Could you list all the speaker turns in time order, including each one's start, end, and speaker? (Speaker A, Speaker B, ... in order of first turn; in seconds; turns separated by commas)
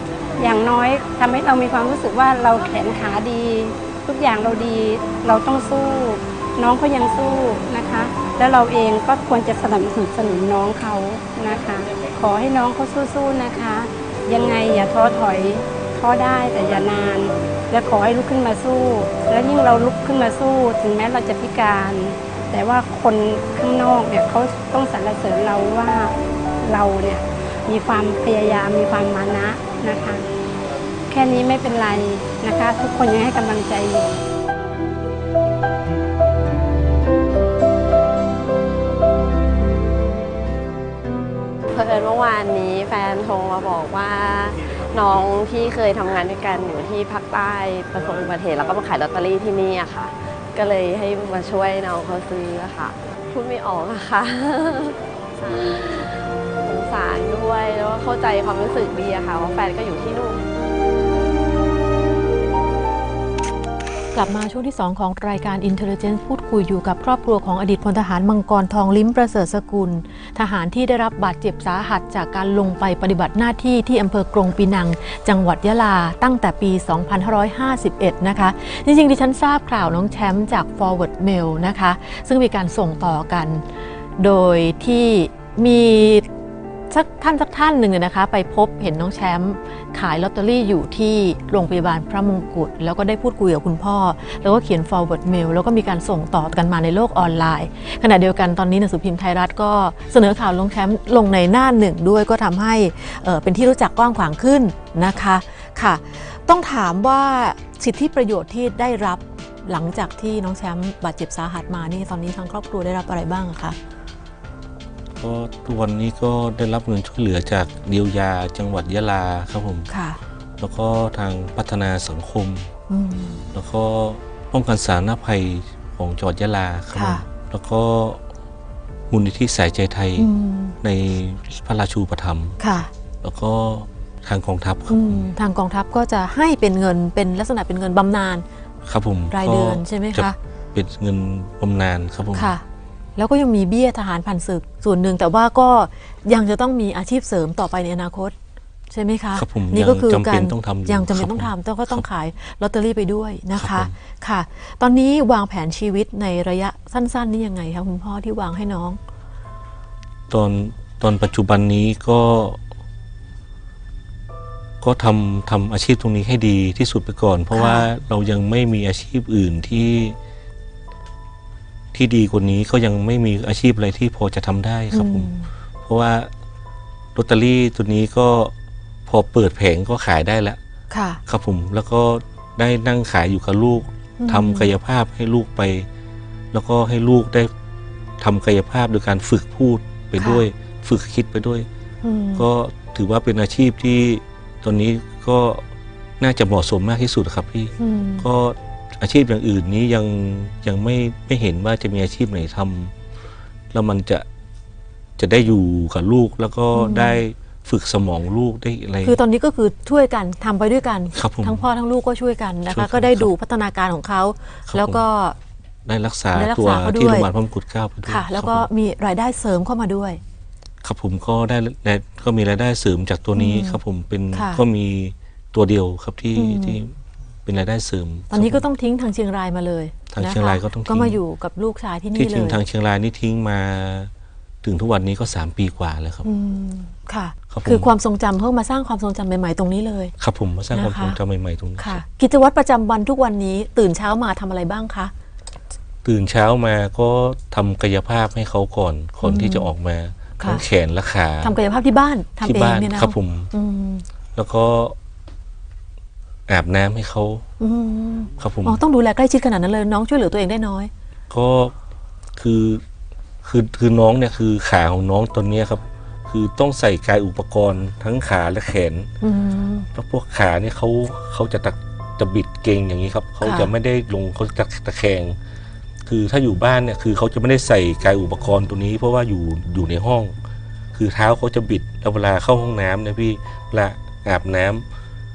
Speaker A: 0.4-30.3, Speaker A: 31.1-34.2, Speaker B: 41.7-60.4, Speaker C: 64.1-83.6, Speaker C: 84.2-86.2, Speaker C: 86.9-113.8, Speaker D: 115.2-119.9, Speaker C: 119.9-120.2, Speaker D: 120.6-122.7, Speaker C: 122.9-123.4, Speaker D: 123.5-128.2, Speaker C: 126.9-127.2, Speaker D: 129.1-130.3, Speaker C: 130.2-130.8, Speaker D: 130.8-132.6, Speaker C: 132.6-132.9, Speaker D: 133.2-135.3, Speaker C: 134.9-138.4, Speaker D: 138.8-142.5, Speaker C: 139.3-140.3, Speaker C: 142.3-142.6, Speaker C: 143.2-148.3, Speaker C: 148.9-159.0, Speaker D: 149.3-152.0, Speaker D: 153.5-153.9, Speaker D: 160.3-162.6, Speaker D: 164.8-170.1, Speaker C: 167.5-167.9, Speaker D: 171.9-175.3, Speaker C: 174.9-175.5, Speaker D: 175.8-176.3, Speaker D: 177.2-178.5, Speaker D: 179.1-180.6, Speaker C: 180.9-181.2, Speaker D: 181.2-185.9, Speaker C: 184.2-184.7, Speaker D: 186.5-187.5, Speaker D: 188.2-191.7, Speaker C: 190.2-190.4, Speaker C: 192.0-192.4, Speaker D: 192.3-195.6, Speaker D: 196.2-202.9, Speaker C: 197.8-198.3, Speaker D: 203.7-204.2, Speaker D: 205.2-209.2, Speaker C: 206.7-207.2, Speaker C: 209.0-215.4, Speaker D: 211.1-211.6, Speaker D: 212.7-213.3, Speaker D: 214.7-215.0, Speaker D: 215.8-218.7, Speaker C: 216.3-217.3, Speaker C: 218.1-220.2, Speaker D: 220.8-226.9, Speaker C: 223.3-223.8, Speaker C: 224.3-224.6, Speaker C: 226.3-226.8, Speaker D: 227.4-228.6, Speaker C: 228.3-232.6, Speaker D: 230.1-231.2, Speaker D: 232.1-234.1, Speaker D: 234.6-236.2, Speaker C: 236.2-240.1, Speaker D: 237.5-237.9, Speaker D: 240.2-242.0, Speaker C: 240.7-241.2, Speaker C: 241.8-245.1, Speaker D: 246.0-251.6, Speaker C: 249.2-249.7, Speaker C: 250.4-250.6, Speaker C: 251.4-254.0, Speaker D: 252.4-253.5, Speaker D: 254.3-254.9, Speaker D: 256.5-257.5, Speaker C: 257.6-260.9, Speaker D: 258.4-258.8, Speaker D: 261.3-261.7, Speaker D: 262.4-262.8, Speaker D: 263.4-269.1, Speaker C: 269.2-269.9, Speaker D: 269.9-275.4, Speaker C: 273.4-273.7, Speaker D: 276.1-280.3, Speaker D: 280.9-284.8